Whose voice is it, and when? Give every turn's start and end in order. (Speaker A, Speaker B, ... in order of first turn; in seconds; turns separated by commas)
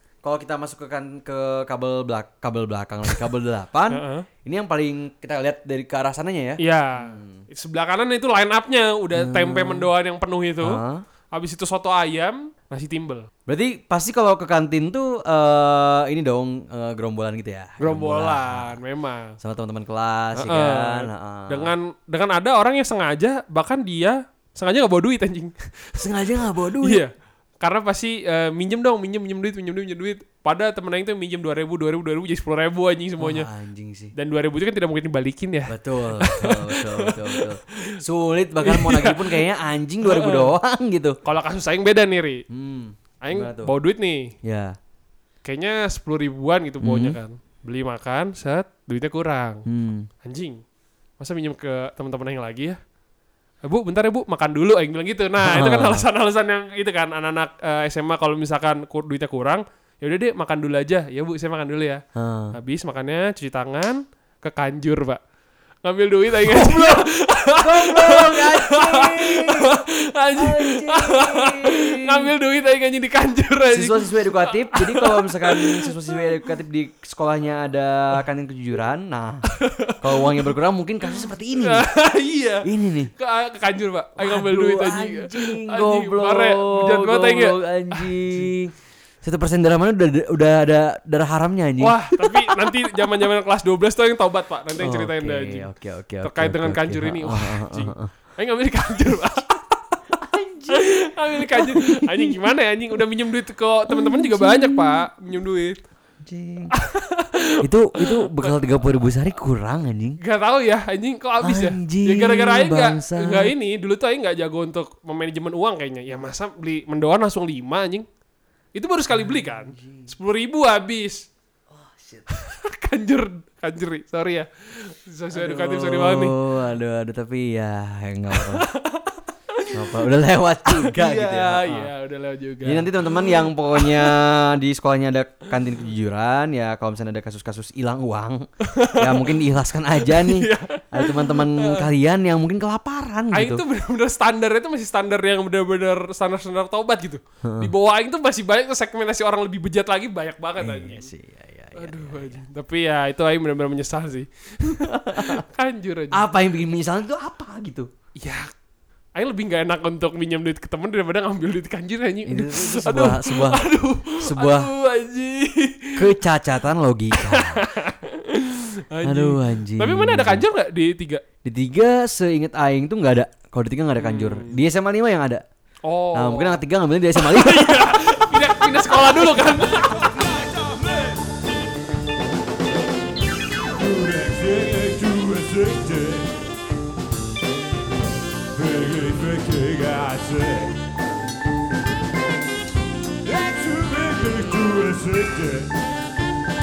Speaker A: 0.2-7.4, Speaker B: 3.9-4.2, Speaker B: 6.6-10.8, Speaker A: 9.1-9.9, Speaker A: 10.6-11.0, Speaker B: 11.3-13.3, Speaker A: 13.5-18.8, Speaker B: 17.8-19.4, Speaker A: 19.4-21.7, Speaker B: 20.3-26.0, Speaker A: 26.0-27.0, Speaker B: 26.8-33.5, Speaker A: 33.2-34.1, Speaker B: 34.1-38.0, Speaker A: 35.7-41.2, Speaker B: 38.6-39.4, Speaker B: 40.0-40.5, Speaker B: 41.2-42.4, Speaker A: 42.5-43.7, Speaker B: 43.2-44.3, Speaker A: 44.4-44.8, Speaker B: 45.4-49.6, Speaker A: 46.8-47.2, Speaker A: 49.7-50.1, Speaker B: 50.2-50.6, Speaker B: 51.2-52.8, Speaker B: 53.6-62.0, Speaker A: 55.4-56.0, Speaker A: 62.1-62.5, Speaker B: 62.5-65.2, Speaker B: 65.8-76.3, Speaker A: 66.4-69.7, Speaker A: 70.3-72.3, Speaker A: 73.7-79.5, Speaker B: 79.5-80.5, Speaker A: 80.0-81.9, Speaker B: 81.1-88.5, Speaker A: 82.6-83.1, Speaker A: 84.2-92.7, Speaker B: 91.8-95.7, Speaker A: 94.8-98.1, Speaker B: 96.2-99.7, Speaker A: 100.1-102.5, Speaker B: 100.7-105.8, Speaker A: 103.9-105.0, Speaker A: 106.2-106.7, Speaker B: 106.7-109.0, Speaker A: 107.6-110.2, Speaker B: 110.2-118.0, Speaker A: 111.4-113.5, Speaker B: 118.7-121.2, Speaker A: 119.1-120.1, Speaker A: 121.7-122.3, Speaker B: 122.3-126.3, Speaker A: 125.3-128.7, Speaker B: 128.3-130.0, Speaker A: 129.7-131.9, Speaker B: 130.7-134.2, Speaker A: 132.6-143.6, Speaker B: 138.6-139.4, Speaker B: 140.0-141.9, Speaker B: 143.3-151.1, Speaker A: 147.4-147.7, Speaker A: 150.6-152.4, Speaker B: 151.8-156.2, Speaker A: 154.6-155.4, Speaker A: 156.1-157.9, Speaker B: 158.2-158.5, Speaker B: 159.2-166.2, Speaker A: 162.2-163.7, Speaker A: 164.2-164.7, Speaker A: 165.9-167.6, Speaker B: 167.2-171.2, Speaker A: 169.0-170.4, Speaker A: 171.4-175.4, Speaker B: 174.0-174.6, Speaker B: 175.8-176.6, Speaker A: 176.1-178.0, Speaker B: 177.2-180.1, Speaker C: 179.7-181.3, Speaker C: 183.7-186.5, Speaker C: 188.5-190.7, Speaker C: 193.2-195.8